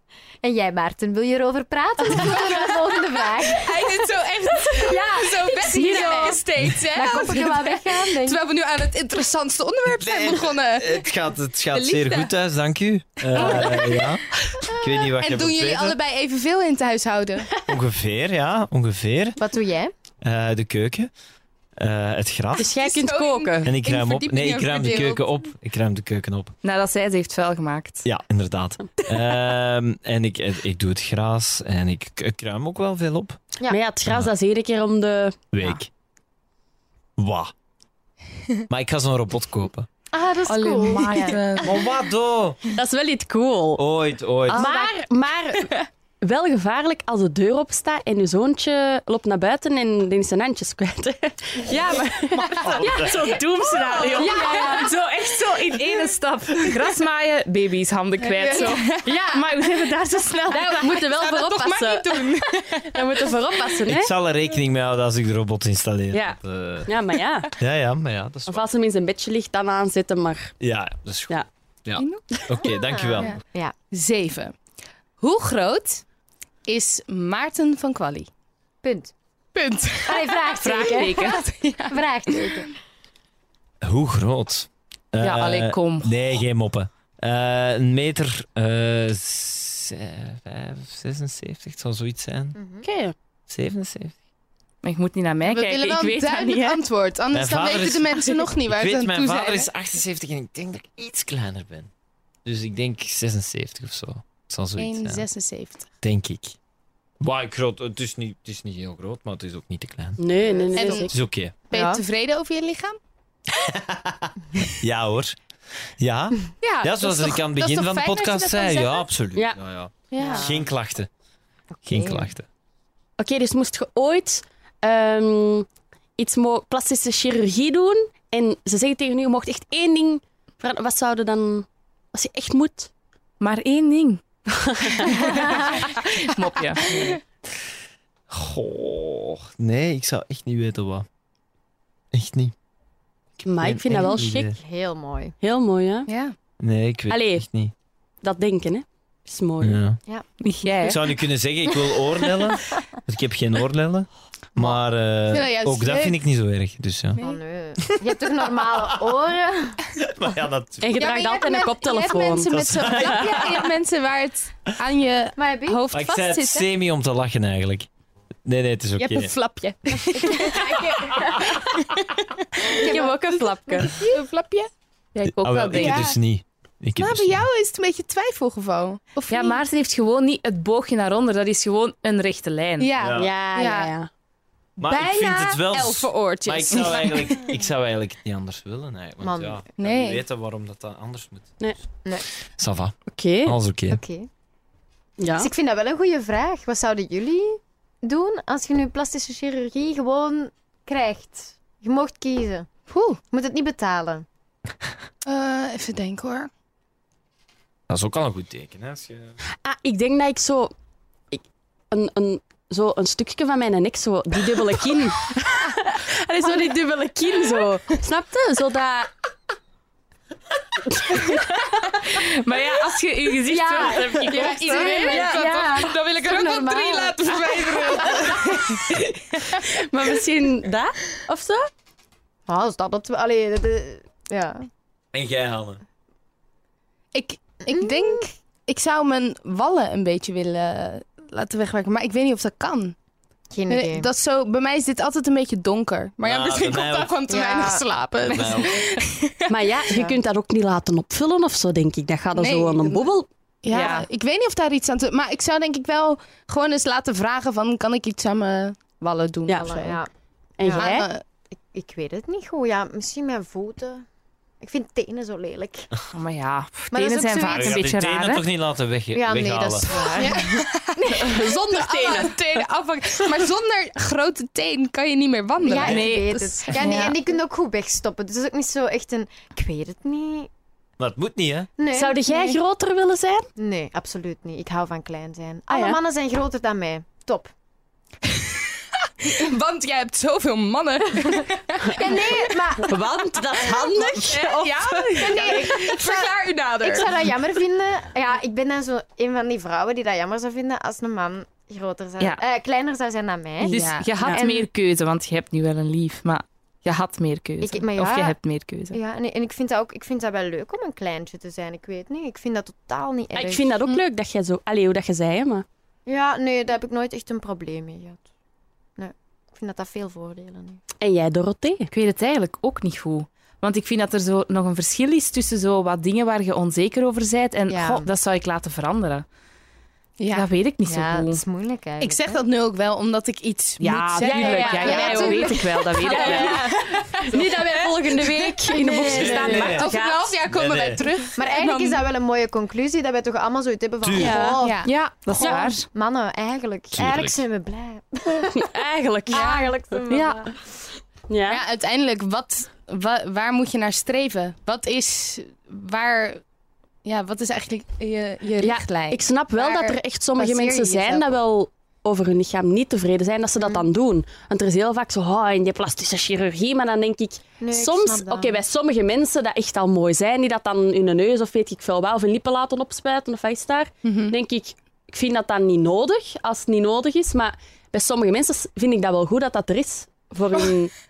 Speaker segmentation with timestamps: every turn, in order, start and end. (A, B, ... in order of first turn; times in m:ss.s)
0:00.4-0:04.0 A
0:02.1-0:11.1 B
0:04.8-0:05.8 A
0:04.9-0:06.3 C
0:05.6-0:06.4 D
0:06.9-0:08.4 A
0:09.9-0:16.0 E
0:11.7-0:12.3 B
0:13.3-0:17.5 B
0:17.7-0:19.4 E
0:19.4-0:19.9 A
0:20.2-0:21.1 E
0:21.8-0:22.8 E
0:22.6-0:23.7 C
0:22.6-0:25.3 B
0:23.6-0:26.5 E
0:26.6-0:28.1 D
0:28.0-0:33.4 E
0:33.7-0:35.5 C
0:34.0-0:34.3 E
0:35.5-0:35.9 E
0:37.2-0:37.5 E
0:38.7-0:39.9 E
0:40.1-0:41.4 A
0:40.5-0:41.8 D
0:41.6-0:42.6 E
0:42.7-0:43.8 C
0:43.8-0:44.7 E
0:44.5-0:54.9 C
0:52.3-0:53.2 E
0:53.1-1:00.9 D
0:53.9-0:54.9 B
0:55.5-0:55.9 B
0:58.2-0:59.2 B
0:59.0-0:59.4 C
1:00.5-1:03.8 B
1:00.5-1:02.3 C
1:02.9-1:04.1 C
1:03.8-1:06.9 E
1:06.1-1:07.5 C
1:07.6-1:08.6 E
1:08.5-1:10.5 C
1:10.6-1:13.4 E
1:12.6-1:13.7 A
1:13.2-1:14.5 B
1:15.2-1:16.0 B
1:16.6-1:18.3 B
1:18.8-1:19.1 A
1:19.5-1:22.7 B
1:20.0-1:22.8 A
1:20.6-1:21.4 D
1:23.8-1:32.6 E
1:25.2-1:26.2 D
1:32.5-1:32.8 A
1:32.8-1:33.1 C
1:33.5-1:34.2 E
1:34.8-1:36.8 D
1:35.4-1:39.7 B
1:37.3-1:41.9 E
1:42.4-1:45.2 E
1:44.8-1:45.9 B
1:46.0-1:46.6 E
1:47.2-1:50.2 E
1:50.2-1:51.1 C
1:50.5-1:50.9 A
1:50.7-1:51.1 B
1:51.0-1:51.5 E
1:51.7-1:53.0 B
1:51.7-1:52.0 A
1:53.5-1:55.4 E
1:56.0-2:01.1 E
1:56.6-1:59.1 B
1:59.3-1:59.6 C
2:00.1-2:00.5 B
2:00.2-2:00.6 A
2:01.7-2:02.3 A
2:01.8-2:02.4 E
2:03.2-2:12.9 C
2:13.4-2:14.2 D
2:14.6-2:15.3 C
2:14.8-2:16.9 D
2:16.8-2:17.2 B
2:18.3-2:21.0 E
2:22.1-2:22.5 E
2:23.4-2:24.5 C
2:23.6-2:24.5 E
2:24.6-2:25.3 A
2:25.4-2:26.1 C
2:26.1-2:26.3 B
2:26.6-2:27.7 E
2:27.1-2:27.4 C
2:28.2-2:29.8 C
2:29.6-2:30.0 E
2:30.4-2:31.0 D
2:30.9-2:37.2 E
2:35.3-2:36.2 B
2:37.1-2:37.4 B
2:37.2-2:39.8 A
2:38.8-2:39.1 E
2:40.0-2:41.0 E
2:40.8-2:43.5 C
2:40.9-2:46.6 B
2:42.5-2:43.6 E
2:45.4-2:45.8 A
2:45.9-2:47.9 E
2:48.4-2:49.3 E
2:49.0-2:53.1 B
2:50.3-2:51.1 A
2:52.8-2:53.9 A
2:52.8-2:54.1 C
2:53.8-2:56.2 B
2:55.3-2:56.1 D
2:55.3-2:57.4 E
2:57.0-2:59.6 B
2:59.3-3:02.9 D
3:02.8-3:03.9 B
3:03.0-3:03.3 E
3:03.2-3:04.1 C
3:04.8-3:11.6 E
3:04.8-3:07.5 B
3:09.2-3:09.6 A
3:09.8-3:10.2 B
3:12.5-3:14.0 E
3:13.1-3:13.6 C
3:13.9-3:14.3 A
3:15.2-3:15.5 C
3:15.4-3:22.7 A
3:22.9-3:23.2 B
3:23.3-3:24.2 A
3:25.2-3:26.5 B
3:27.9-3:29.4 E
3:29.6-3:30.7 C
3:31.3-3:39.1 C
3:40.9-3:41.5 C
3:42.0-3:45.2 D
3:43.5-3:48.4 A
3:44.1-3:45.9 C
3:44.3-3:48.9 B
3:49.7-3:51.7 C
3:52.5-3:54.7 A
3:55.1-3:55.8 E
3:57.1-4:02.9 B
3:57.7-3:58.2 A
4:03.5-4:04.1 A
4:03.7-4:10.1 B
4:06.2-4:07.2 E
4:07.3-4:07.8 A
4:08.2-4:08.9 E
4:09.5-4:13.3 C
4:12.3-4:13.1 B
4:13.6-4:20.0 B
4:13.7-4:14.1 D
4:19.5-4:19.7 C
4:19.6-4:20.1 A
4:20.6-4:21.1 C
4:20.6-4:20.8 A
4:20.7-4:21.2 B
4:21.7-4:24.0 A
4:24.6-4:25.9 A
4:26.1-4:28.4 D
4:26.9-4:27.8 A
4:27.5-4:29.9 E
4:29.1-4:31.2 A
4:30.2-4:37.1 B
4:31.3-4:32.3 C
4:35.6-4:40.5 A
4:35.8-4:37.1 D
4:41.0-4:41.7 E
4:41.8-4:42.4 A
4:41.9-4:43.5 C
4:43.6-4:47.5 A
4:45.7-4:46.0 C
4:49.2-4:57.3 B
4:52.0-4:53.0 A
4:52.8-4:55.7 C
4:55.2-5:03.8 A
5:03.7-5:04.4 B
5:03.7-5:09.0 D
5:07.6-5:08.4 A
5:08.9-5:13.8 A
5:13.3-5:15.6 C
5:16.0-5:18.2 A
5:19.0-5:20.8 A
5:21.0-5:21.9 C
5:21.9-5:29.2 D
5:27.7-5:28.1 A
5:30.2-5:30.5 B
5:30.3-5:31.4 D
5:30.8-5:32.4 A
5:32.0-5:42.0 B
5:33.8-5:36.6 D
5:34.2-5:40.3 C
5:34.7-5:35.5 A
5:36.3-5:36.8 A
5:39.1-5:39.9 E
5:40.5-5:41.0 E
5:41.4-5:44.9 A
5:44.0-5:44.4 E
5:44.2-5:44.5 C
5:44.6-5:45.6 B
5:44.8-5:45.9 D
5:45.4-5:45.7 C
5:45.9-5:48.7 A
5:46.9-5:47.4 E
5:48.5-5:50.0 C
5:49.3-5:50.8 A
5:49.3-5:49.7 B
5:50.1-5:50.5 D
5:51.3-5:51.6 C
5:51.5-5:56.4 B
5:57.0-6:01.3 B
5:58.6-6:20.9 C
6:03.6-6:03.8 A
6:07.6-6:08.6 A
6:14.0-6:14.4 B